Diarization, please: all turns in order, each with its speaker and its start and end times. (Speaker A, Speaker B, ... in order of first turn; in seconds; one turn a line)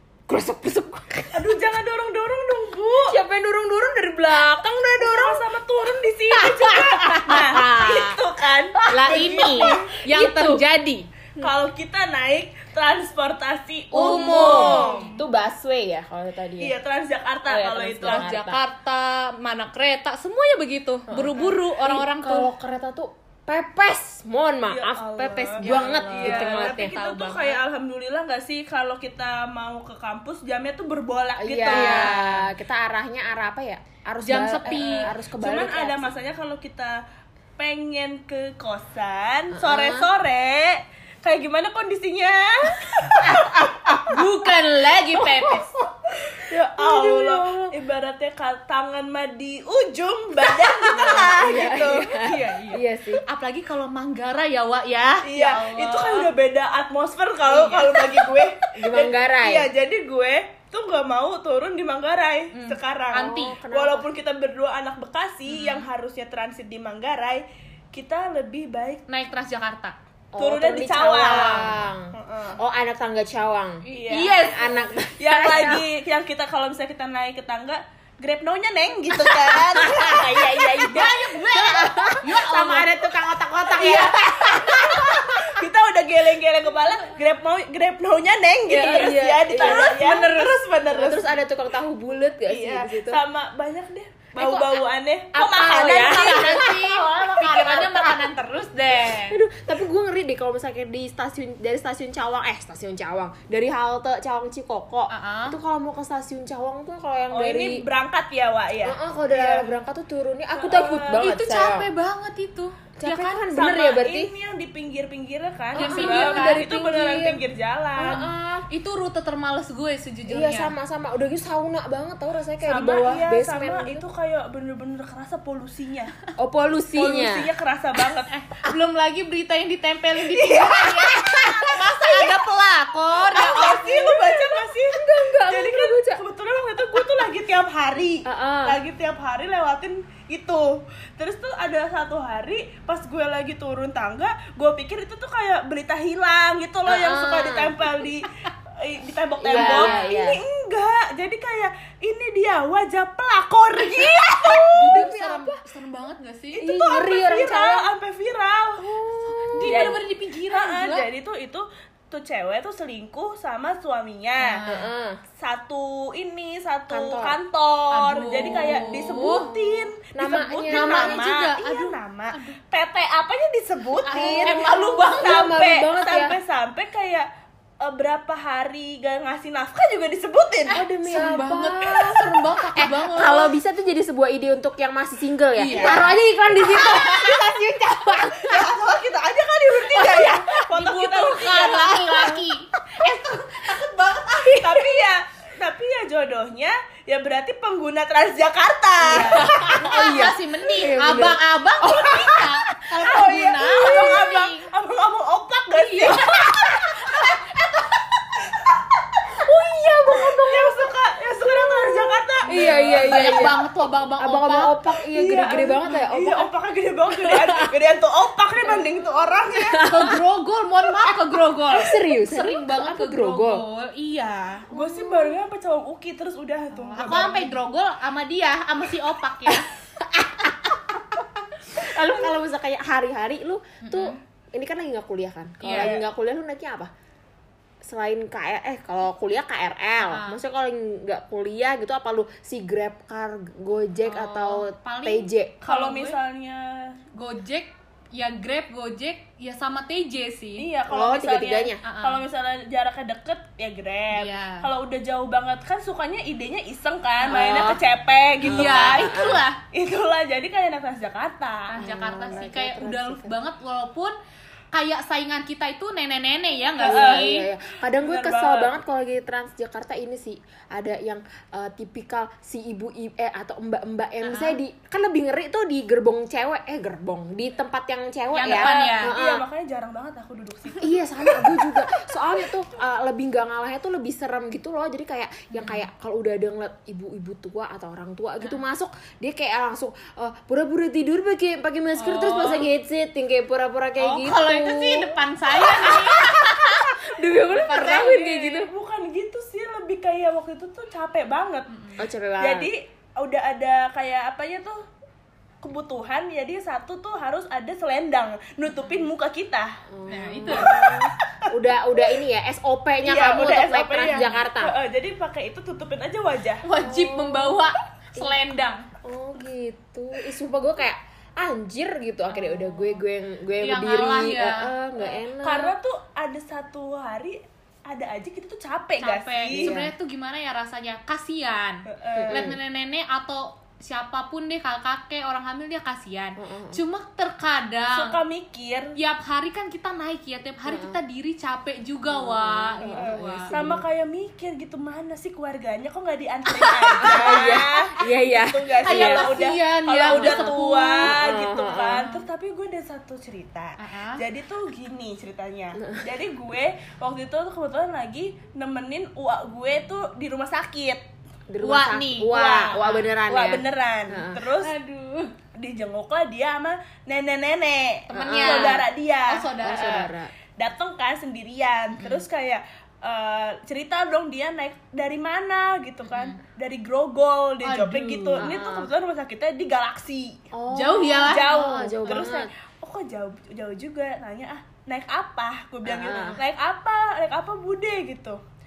Speaker A: 0.3-1.5
Speaker B: 1.3-3.2
Speaker A: 3.1-5.4
Speaker B: 5.0-9.9
Speaker A: 6.4-8.2
Speaker C: 7.3-7.6
Speaker C: 8.9-10.7
Speaker A: 8.9-11.1
Speaker B: 11.4-15.1
Speaker C: 13.9-15.2
Speaker A: 13.9-16.8
Speaker B: 16.6-18.3
Speaker A: 17.5-18.6
Speaker C: 18.0-22.5
Speaker A: 21.1-27.6
Speaker B: 24.7-32.2
Speaker C: 25.6-27.6
Speaker A: 31.4-36.1
Speaker C: 31.7-32.5
Speaker C: 34.2-35.1
Speaker B: 34.7-37.0
Speaker B: 37.6-43.7
Speaker A: 39.5-40.1
Speaker A: 43.3-44.3
Speaker C: 44.0-45.7
Speaker A: 45.2-45.6
Speaker B: 46.1-52.1
Speaker C: 46.8-47.7
Speaker A: 50.8-53.2
Speaker C: 51.9-56.3
Speaker B: 55.2-69.0
Speaker C: 57.5-58.2
Speaker A: 58.8-59.7
Speaker C: 62.5-63.6
Speaker A: 63.3-64.1
Speaker C: 65.5-65.8
Speaker C: 69.1-70.0
Speaker A: 70.3-75.9
Speaker B: 70.4-72.6
Speaker C: 73.8-74.9
Speaker B: 73.9-74.4
Speaker B: 75.2-81.2
Speaker A: 79.3-85.7
Speaker C: 80.9-82.9
Speaker B: 83.8-91.3
Speaker A: 88.7-93.2
Speaker C: 88.7-90.6
Speaker B: 92.5-96.8
Speaker A: 94.4-94.8
Speaker A: 95.3-98.3
Speaker C: 95.8-99.4
Speaker A: 99.3-107.8
Speaker C: 105.1-105.6
Speaker B: 107.3-109.7
Speaker A: 108.8-111.9
Speaker B: 110.5-111.3
Speaker C: 111.2-112.8
Speaker A: 113.0-114.3
Speaker B: 113.0-118.3
Speaker A: 115.8-117.4
Speaker C: 115.8-116.6
Speaker A: 118.0-118.7
Speaker C: 118.7-120.7
Speaker A: 120.3-124.0
Speaker B: 122.7-126.2
Speaker A: 126.4-127.5
Speaker B: 127.0-128.3
Speaker C: 128.3-134.2
Speaker B: 130.3-131.2
Speaker A: 131.2-131.5
Speaker B: 132.0-132.3
Speaker B: 133.3-155.1
Speaker A: 134.1-136.2
Speaker A: 138.2-138.8
Speaker A: 146.9-147.8
Speaker A: 149.4-150.4
Speaker C: 149.5-150.1
Speaker A: 154.3-155.6
Speaker C: 154.7-156.7
Speaker B: 156.6-158.9
Speaker A: 156.6-157.9
Speaker A: 158.8-160.0
Speaker C: 159.5-161.1
Speaker B: 159.6-164.6
Speaker C: 164.4-164.9
Speaker A: 164.7-165.2
Speaker B: 165.4-177.3
Speaker A: 166.9-167.4
Speaker C: 167.9-169.5
Speaker A: 168.5-171.2
Speaker C: 170.7-172.6
Speaker C: 174.1-175.3
Speaker A: 174.1-176.3
Speaker B: 177.8-180.8
Speaker A: 180.7-188.7
Speaker C: 181.0-183.5
Speaker C: 185.6-186.1
Speaker B: 185.7-186.2
Speaker B: 186.8-187.3
Speaker B: 188.4-192.2
Speaker A: 189.9-190.3
Speaker C: 190.3-193.8
Speaker A: 191.7-192.4
Speaker A: 193.0-194.9
Speaker B: 194.5-199.7
Speaker A: 199.1-202.5
Speaker C: 199.1-204.7
Speaker B: 202.9-207.6
Speaker A: 203.8-204.2
Speaker C: 205.8-206.5
Speaker A: 206.2-206.7
Speaker B: 208.4-209.4
Speaker A: 209.3-210.9
Speaker B: 210.1-213.6
Speaker A: 211.4-213.7
Speaker C: 212.4-214.7
Speaker A: 214.2-216.5
Speaker B: 215.1-219.9
Speaker A: 217.2-217.7
Speaker A: 219.6-220.2
Speaker C: 219.8-224.7
Speaker A: 221.7-223.6
Speaker A: 224.7-225.4
Speaker B: 224.7-227.5
Speaker C: 226.8-229.7
Speaker A: 229.5-236.9
Speaker C: 233.8-234.2
Speaker C: 235.6-235.9
Speaker B: 235.8-236.1
Speaker A: 237.8-245.6
Speaker C: 240.0-240.4
Speaker C: 244.1-246.2
Speaker B: 245.6-247.0
Speaker C: 247.2-250.7
Speaker B: 250.6-259.1
Speaker A: 250.9-251.8
Speaker C: 251.8-252.2
Speaker C: 254.1-254.7
Speaker A: 257.2-257.8
Speaker A: 258.4-259.4
Speaker C: 258.4-259.6
Speaker B: 259.7-261.8
Speaker C: 261.7-264.1
Speaker A: 261.8-263.4
Speaker C: 264.7-267.5
Speaker B: 266.8-267.3
Speaker A: 266.8-279.4
Speaker B: 267.9-268.8
Speaker C: 274.2-274.6
Speaker C: 278.3-279.1
Speaker B: 278.4-281.6
Speaker A: 280.8-298.7
Speaker C: 285.5-285.9
Speaker C: 292.0-292.6
Speaker C: 294.0-296.9
Speaker B: 297.5-301.7
Speaker C: 297.5-298.0
Speaker C: 301.7-302.0
Speaker A: 302.0-302.7
Speaker B: 302.4-304.8
Speaker B: 305.6-309.8
Speaker C: 308.8-309.0
Speaker A: 309.9-314.7
Speaker C: 310.1-310.7
Speaker B: 310.5-311.5
Speaker B: 313.0-316.6
Speaker C: 314.0-314.4
Speaker C: 316.6-318.9
Speaker A: 316.8-317.6
Speaker A: 319.0-325.8
Speaker C: 322.3-322.8
Speaker C: 323.6-324.7
Speaker B: 325.4-329.7
Speaker C: 329.0-338.2
Speaker A: 329.5-329.9
Speaker B: 331.9-332.5
Speaker A: 332.1-332.6
Speaker A: 336.4-336.8
Speaker B: 337.9-338.9
Speaker C: 339.0-343.6
Speaker A: 340.7-341.0
Speaker A: 342.1-343.8
Speaker B: 342.8-361.0
Speaker C: 346.5-347.6
Speaker A: 347.0-349.4
Speaker C: 348.9-351.1
Speaker A: 350.0-352.1
Speaker C: 352.0-352.3
Speaker C: 353.8-354.2
Speaker A: 355.8-356.0
Speaker A: 361.5-364.4
Speaker C: 361.6-363.1
Speaker B: 362.3-364.7
Speaker C: 364.6-365.3
Speaker B: 365.6-369.8
Speaker C: 368.1-370.1
Speaker A: 368.1-368.9
Speaker A: 369.6-370.3
Speaker B: 370.6-380.4
Speaker C: 376.1-376.4
Speaker C: 377.6-378.5
Speaker A: 378.4-378.9
Speaker A: 380.5-382.5
Speaker C: 380.7-382.3
Speaker B: 381.2-388.4
Speaker A: 385.9-386.4